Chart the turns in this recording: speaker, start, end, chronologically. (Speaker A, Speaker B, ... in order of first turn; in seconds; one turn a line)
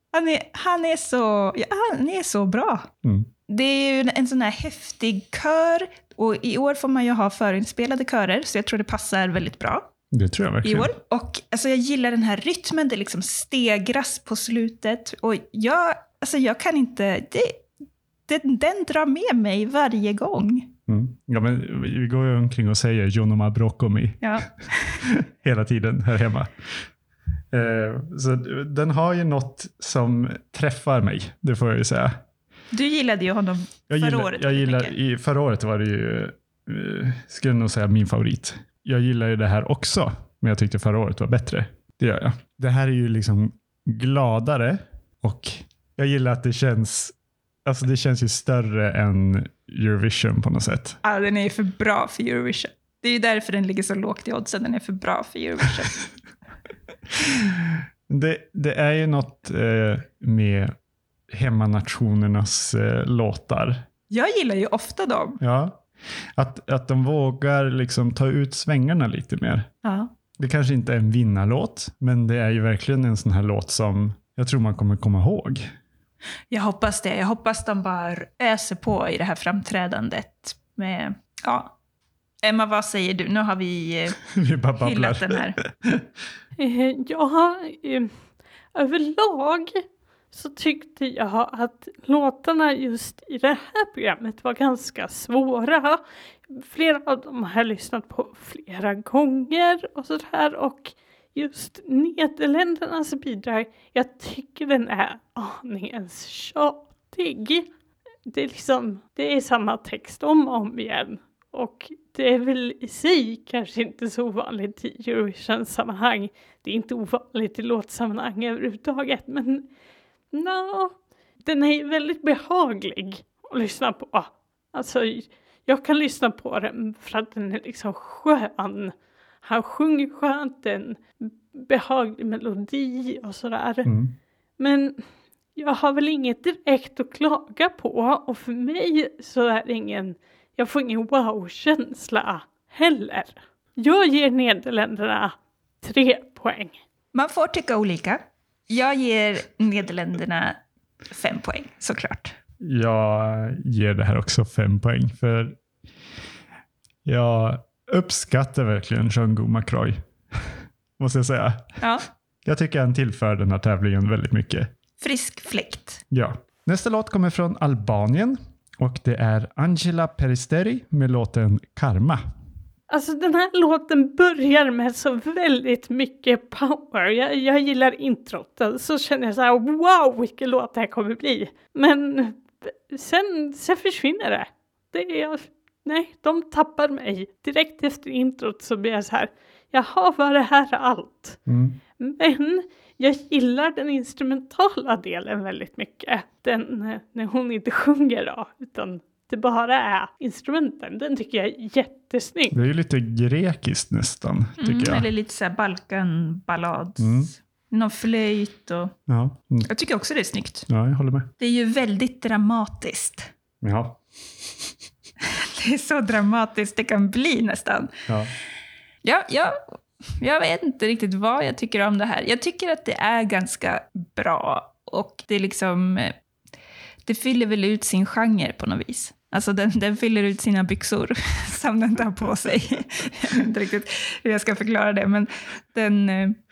Speaker A: 0.1-2.9
Speaker B: 3.0-3.3
Speaker A: 3.5-9.9
Speaker B: 10.1-10.9
Speaker A: 10.6-17.6
Speaker A: 18.3-20.7
Speaker B: 20.9-24.4
Speaker A: 24.2-25.0
Speaker B: 25.0-26.5
Speaker B: 27.5-32.2
Speaker A: 32.7-34.9
Speaker B: 33.9-47.1
Speaker B: 47.7-51.0
Speaker A: 51.0-56.0
Speaker B: 57.1-60.7
Speaker B: 61.3-63.9
Speaker A: 64.1-65.4
Speaker B: 65.4-65.8
Speaker B: 66.4-69.7
Speaker A: 69.8-70.1
Speaker B: 70.4-75.7
Speaker A: 76.5-81.8
Speaker A: 82.4-84.2
Speaker B: 84.3-86.1
Speaker A: 84.8-85.6
Speaker C: 86.6-88.1
Speaker C: 88.7-89.8
Speaker C: 90.3-107.7
Speaker C: 108.3-119.7
Speaker C: 120.3-133.9
Speaker B: 133.8-134.2
Speaker C: 134.6-135.1
Speaker C: 135.6-146.8
Speaker A: 147.1-152.3
Speaker B: 152.6-155.6
Speaker B: 157.1-161.8
Speaker B: 162.4-164.7
Speaker A: 165.0-166.0
Speaker B: 166.1-172.2
Speaker C: 172.9-191.4
Speaker B: 191.5-191.8
Speaker C: 192.0-202.6
Speaker B: 202.5-205.1
Speaker A: 204.6-208.9
Speaker B: 207.0-207.3
Speaker B: 209.1-209.7
Speaker A: 209.7-210.7
Speaker B: 210.7-211.3
Speaker A: 211.4-213.3
Speaker B: 213.6-214.0
Speaker A: 215.2-218.0
Speaker B: 218.1-218.3
Speaker A: 219.0-226.1
Speaker A: 227.1-236.4